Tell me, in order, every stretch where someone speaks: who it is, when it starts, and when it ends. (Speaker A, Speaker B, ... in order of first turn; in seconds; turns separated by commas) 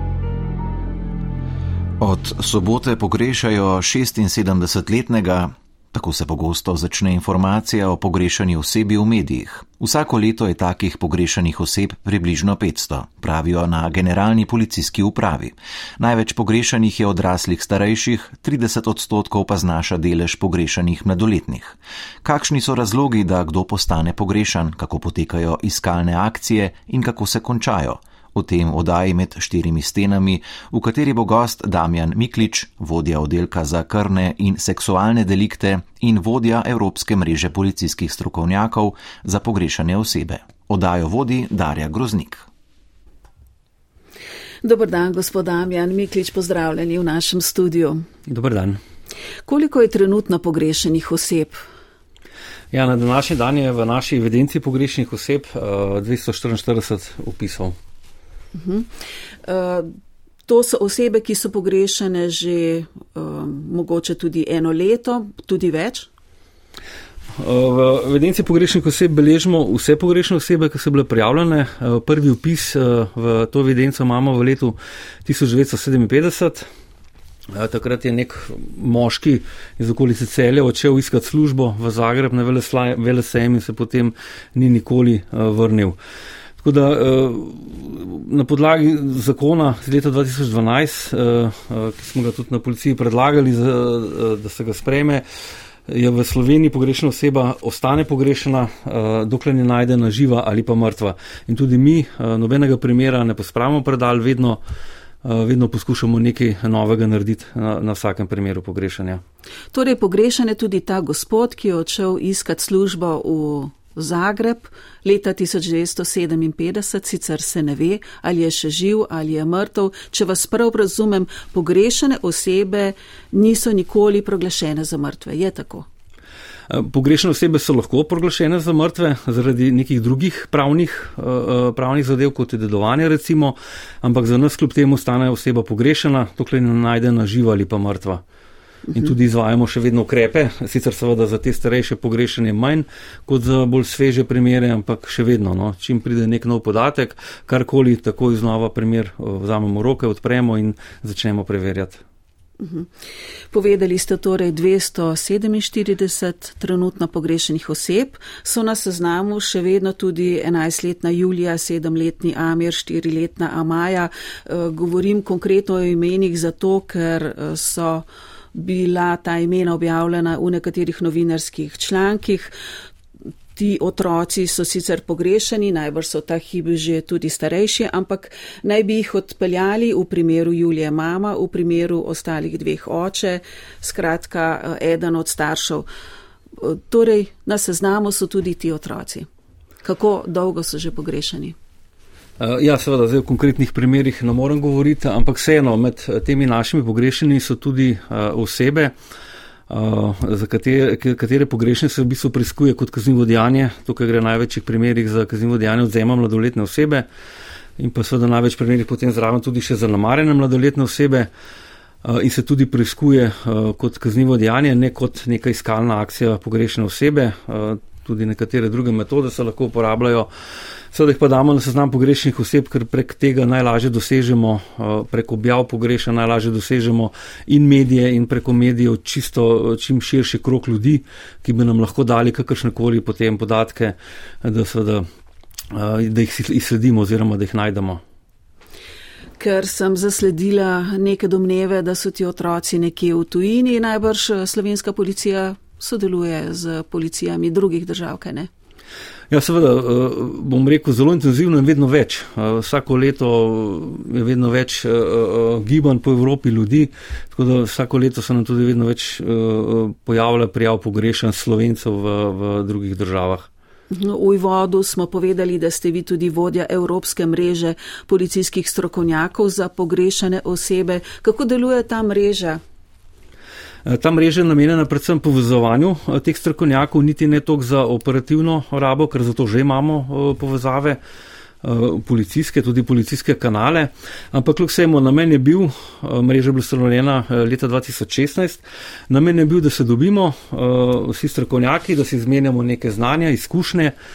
Speaker A: 2.0-42.5, Speaker B: 44.6-48.0, Speaker C: 48.3-48.8, Speaker B: 49.5-51.6, Speaker C: 52.7-57.8, Speaker B: 58.5-58.9, Speaker B: 59.4-59.9, Speaker B: 60.5-66.1, Speaker C: 67.3-76.7, Speaker C: 77.5-86.0, Speaker C: 86.6-95.2, Speaker C: 95.9-104.6, Speaker C: 105.2-109.2, Speaker B: 109.7-125.9, Speaker C: 126.7-138.2, Speaker C: 138.9-152.0, Speaker B: 152.6-152.9, Speaker B: 153.5-172.5, Speaker B: 173.6-185.9, Speaker B: 186.6-189.3, Speaker B: 189.8-191.6, Speaker C: 192.4-198.9, Speaker C: 199.7-207.1, Speaker C: 207.8-211.3, Speaker C: 212.0-220.3, Speaker C: 220.9-235.1, Speaker C: 235.7-238.0, Speaker B: 239.4-248.5, Speaker C: 249.3-263.5, Speaker B: 263.9-272.6, Speaker C: 273.9-281.0, Speaker C: 281.6-293.9